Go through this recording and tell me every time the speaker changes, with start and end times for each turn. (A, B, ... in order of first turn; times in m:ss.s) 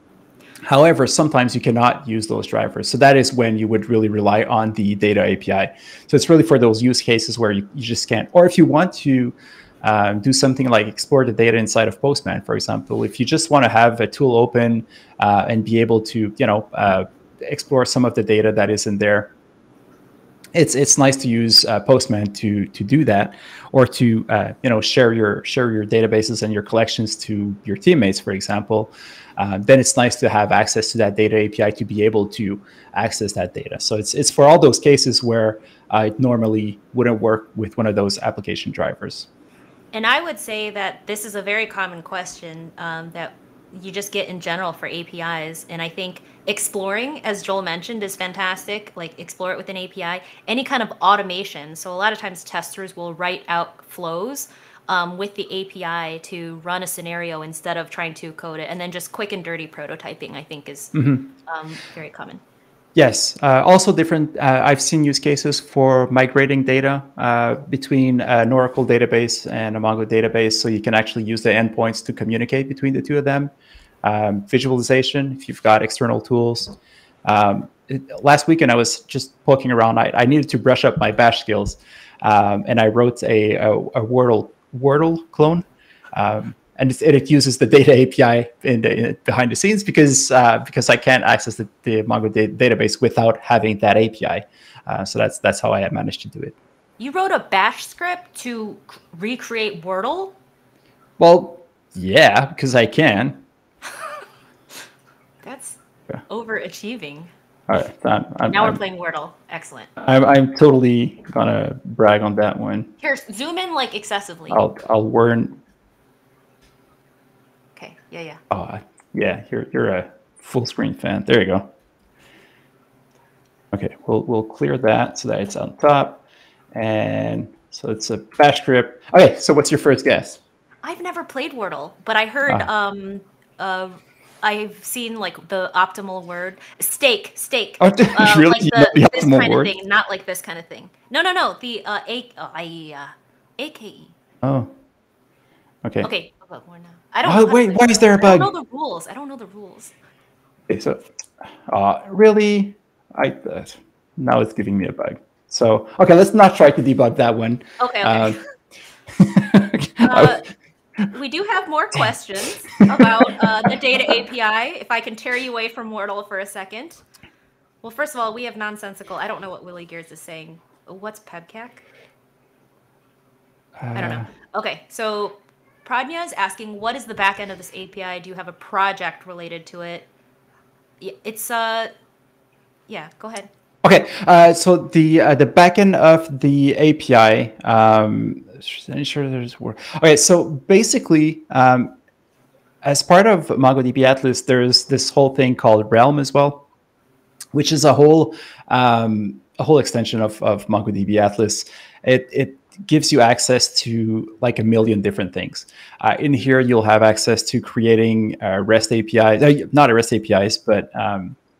0:00.6-0:19.3 A
0:20.6-0:39.3 A
0:39.9-1:02.4 B
1:00.9-1:01.3 A
1:03.0-1:13.5 A
1:14.0-1:36.6 A
1:37.0-1:40.4 B
1:41.2-1:43.4 A
1:45.4-1:47.3 B
1:47.7-1:48.8 A
1:48.5-1:49.9 B
1:50.0-1:52.9 A
1:53.0-1:54.6 B
1:54.5-1:55.6 A
1:57.8-1:58.4 B
1:58.5-2:01.7 A
2:03.7-2:10.4 A
2:10.8-2:24.1 B
2:17.8-2:19.7 A
2:24.4-2:24.7 A
2:25.8-2:26.1 A
2:26.0-2:29.9 B
2:27.2-2:28.5 A
2:30.7-2:31.1 A
2:31.7-2:38.4 A
2:37.8-2:38.4 B
2:39.1-2:40.4 A
2:40.0-2:40.4 B
2:41.1-2:47.0 B
2:42.9-2:43.8 A
2:47.8-2:51.9 B
2:53.8-2:54.3 A
2:53.9-3:00.1 B
3:01.0-3:01.9 B
3:02.9-3:03.5 B
3:03.8-3:12.0 A
3:12.8-3:16.7 A
3:17.5-3:31.4 A